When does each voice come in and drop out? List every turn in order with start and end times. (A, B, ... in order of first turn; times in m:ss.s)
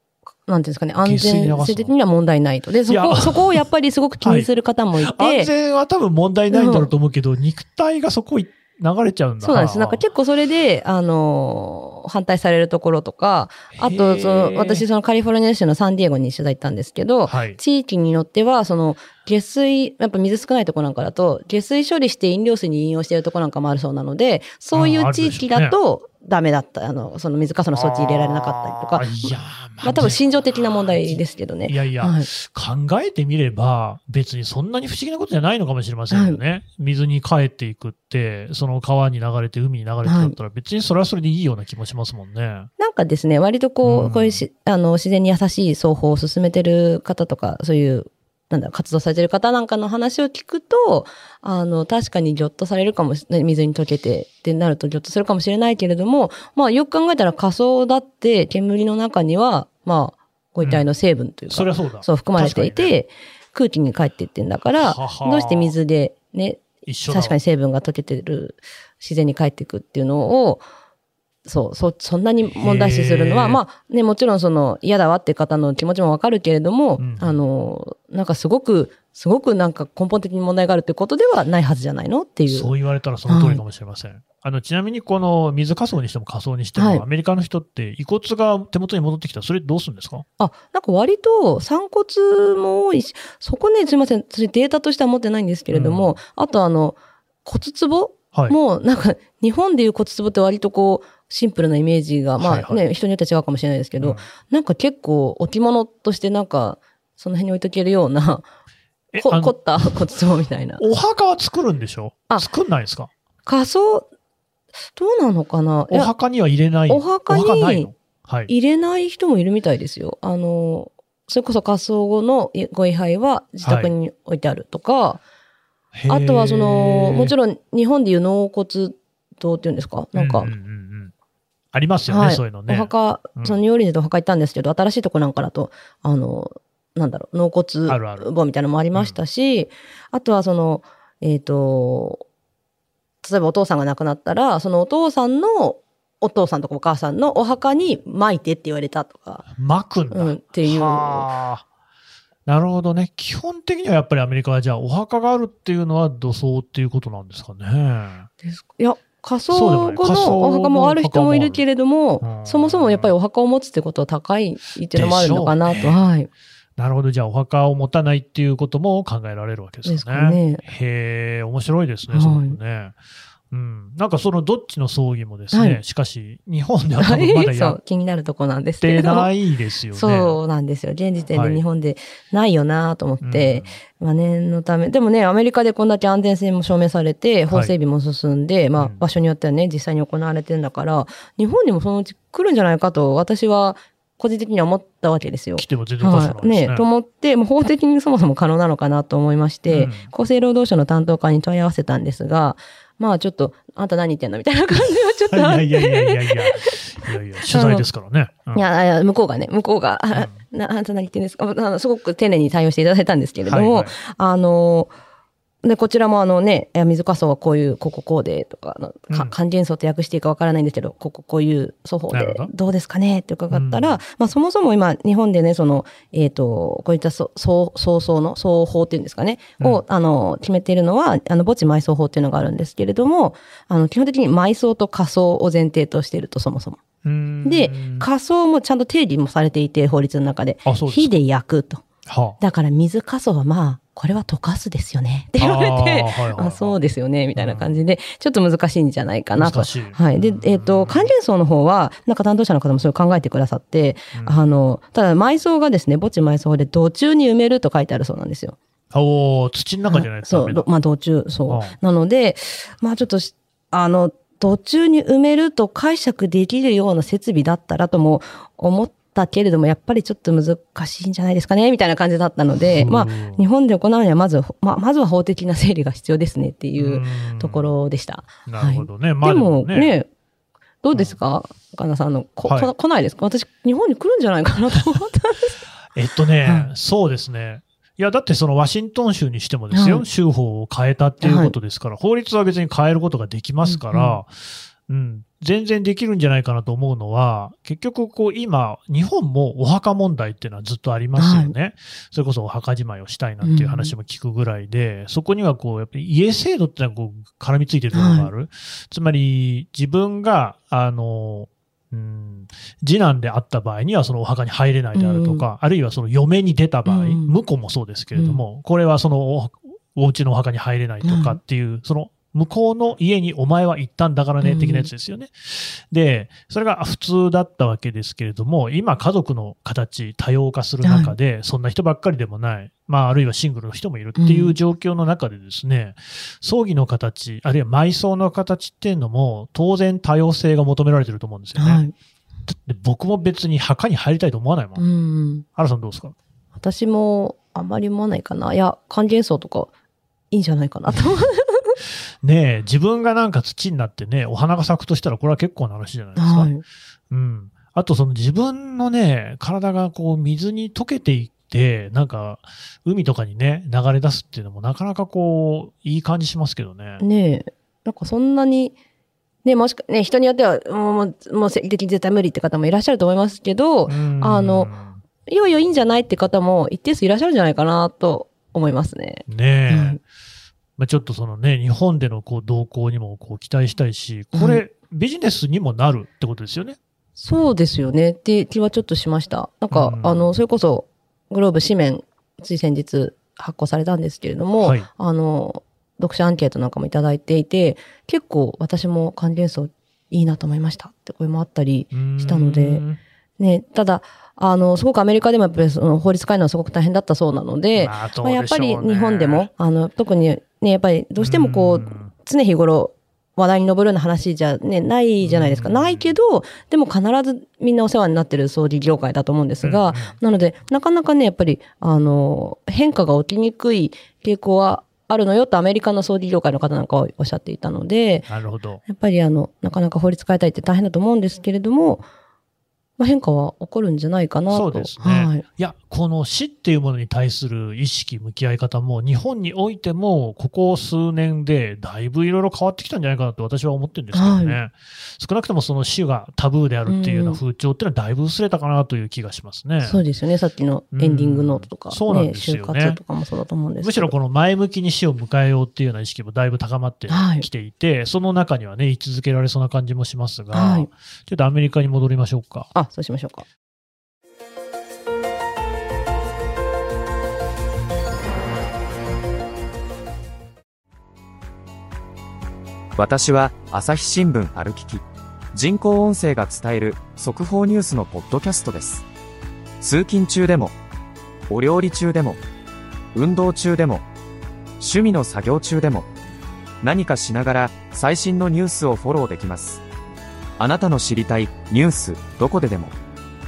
0:00.5-0:05.5 A
0:01.0-0:01.9 B
0:02.9-0:03.6 B
0:04.2-0:04.5 B
0:05.0-0:10.0 B
0:06.5-0:06.9 A
0:09.4-0:32.3 A
0:13.8-0:14.8 B
0:17.3-0:17.6 B
0:24.7-0:25.8 B
0:27.8-0:42.7 B
0:36.1-0:36.4 A
0:40.0-0:40.4 A
0:42.8-1:10.6 A
0:43.8-0:44.4 B
1:01.5-1:03.0 B
1:04.7-1:05.8 B
1:06.9-1:07.4 B
1:11.5-1:22.7 A
1:12.5-1:13.6 B
1:17.0-1:17.4 B
1:22.5-1:30.2 B
1:23.3-1:23.6 A
1:26.8-1:27.0 A
1:30.4-1:48.4 A
1:35.7-1:36.2 B
1:42.4-1:42.8 B
1:49.1-1:49.9 B
1:49.2-1:50.8 A
1:50.8-1:53.1 B
1:53.5-1:54.1 A
1:54.9-1:56.1 A
1:55.9-1:58.5 B
1:56.9-1:57.9 A
1:58.5-2:05.2 A
2:03.6-2:03.9 B
2:05.9-2:07.3 B
2:06.1-2:10.5 A
2:10.1-2:11.1 B
2:11.7-2:13.6 B
2:12.1-2:22.2 A
2:17.9-2:18.3 B
2:23.2-2:29.5 A
2:29.6-2:31.6 B
2:30.1-2:31.3 A
2:32.5-2:38.3 B
2:38.4-2:46.3 A
2:39.5-2:41.6 B
2:42.2-2:43.1 B
2:44.9-2:46.0 B
2:46.8-2:53.0 B
2:49.9-2:50.6 A
2:52.1-2:52.6 A
2:53.5-2:57.8 B
2:55.5-2:55.8 A
2:57.0-2:59.3 A
2:58.8-3:00.4 B
2:59.9-3:27.9 A
3:01.3-3:01.6 B
3:03.2-3:03.7 B
3:15.6-3:16.9 B
3:19.7-3:20.1 B
3:25.3-3:28.6 B
3:28.5-3:34.9 A
3:30.1-3:30.4 B
3:33.5-3:34.0 B
3:35.6-3:56.8 A
3:42.1-3:42.5 B
3:43.5-3:44.0 B
3:57.0-3:58.1 B
3:57.4-4:01.8 A
4:00.6-4:01.1 B
4:02.1-4:02.4 B
4:02.4-4:18.6 A
4:05.4-4:06.8 B
4:07.4-4:07.8 B
4:09.4-4:11.1 B
4:18.9-4:20.7 B
4:19.9-4:40.1 A
4:21.5-4:21.8 B
4:32.7-4:33.4 B
4:36.8-4:37.7 B
4:38.5-4:39.9 B
4:40.8-4:45.6 A
4:45.9-5:41.8 B
4:46.4-4:46.7 A
4:49.7-4:50.0 A
4:51.2-4:51.5 A
4:53.6-4:54.2 A
5:01.2-5:01.5 A
5:03.4-5:03.9 A
5:07.9-5:08.3 A
5:14.9-5:15.4 A
5:16.9-5:17.4 A
5:18.1-5:18.4 A
5:21.0-5:21.4 A
5:24.4-5:24.9 A
5:30.8-5:31.1 A
5:34.2-5:34.6 A
5:41.6-5:41.9 A
5:42.5-5:44.8 B
5:44.8-5:45.4 A
5:45.6-5:46.1 B
5:46.6-5:49.7 A
5:50.3-5:51.8 A
5:52.2-5:56.5 B
5:56.2-5:56.6 A
5:57.1-6:07.0 B
6:07.0-6:08.7 A
6:09.4-6:14.7 A
6:13.9-6:15.0 B
6:15.2-6:20.0 A
6:19.3-6:20.0 B
6:20.8-6:26.8 B
6:24.3-6:24.6 A
6:27.2-6:42.8 A
6:29.7-6:30.3 B
6:34.6-6:34.9 B
6:41.9-6:43.0 B
6:43.4-7:08.3 A
6:47.8-6:49.5 B
6:51.2-6:52.1 B
6:55.2-6:56.1 B
6:59.6-7:00.1 B
7:08.3-7:08.8 B
7:08.8-7:12.0 A
7:13.0-7:15.4 A
7:14.5-7:30.0 B
7:24.1-7:24.6 A
7:26.9-7:27.4 A
7:29.8-7:34.1 A
7:30.9-7:33.0 B
7:33.8-7:42.7 B
7:37.1-7:37.5 A
7:40.5-7:40.9 A
7:42.7-7:43.5 A
7:53.0-7:59.1 C
7:59.8-8:00.8 C
8:01.5-8:02.4 C
8:03.1-8:04.1 C
8:04.8-8:06.1 C
8:06.8-8:09.8 C
8:10.6-8:13.0 C